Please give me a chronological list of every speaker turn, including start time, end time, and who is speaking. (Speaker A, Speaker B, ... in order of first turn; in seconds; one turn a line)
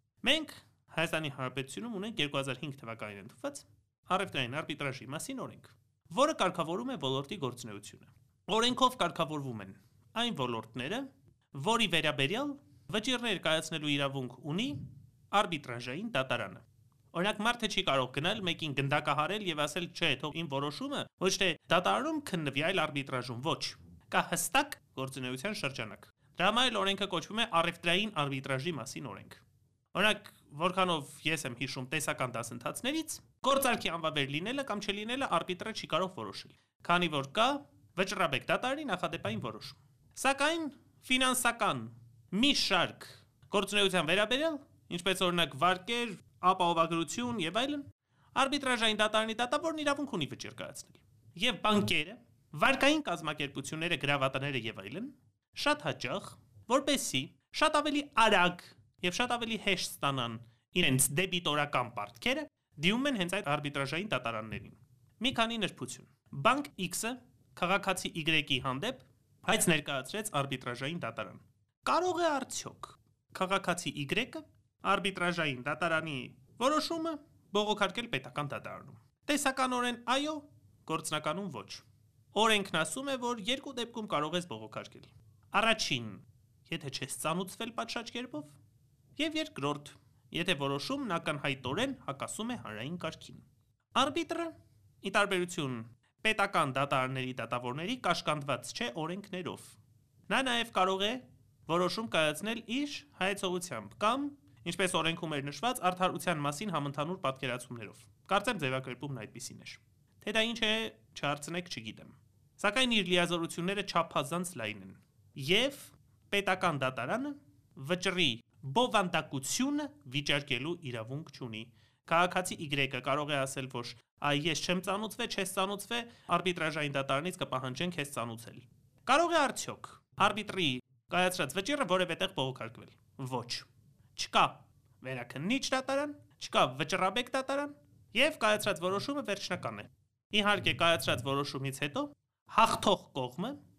Speaker A: 0.2-88.6
Speaker A: 89.2-99.8
Speaker A: 100.3-143.6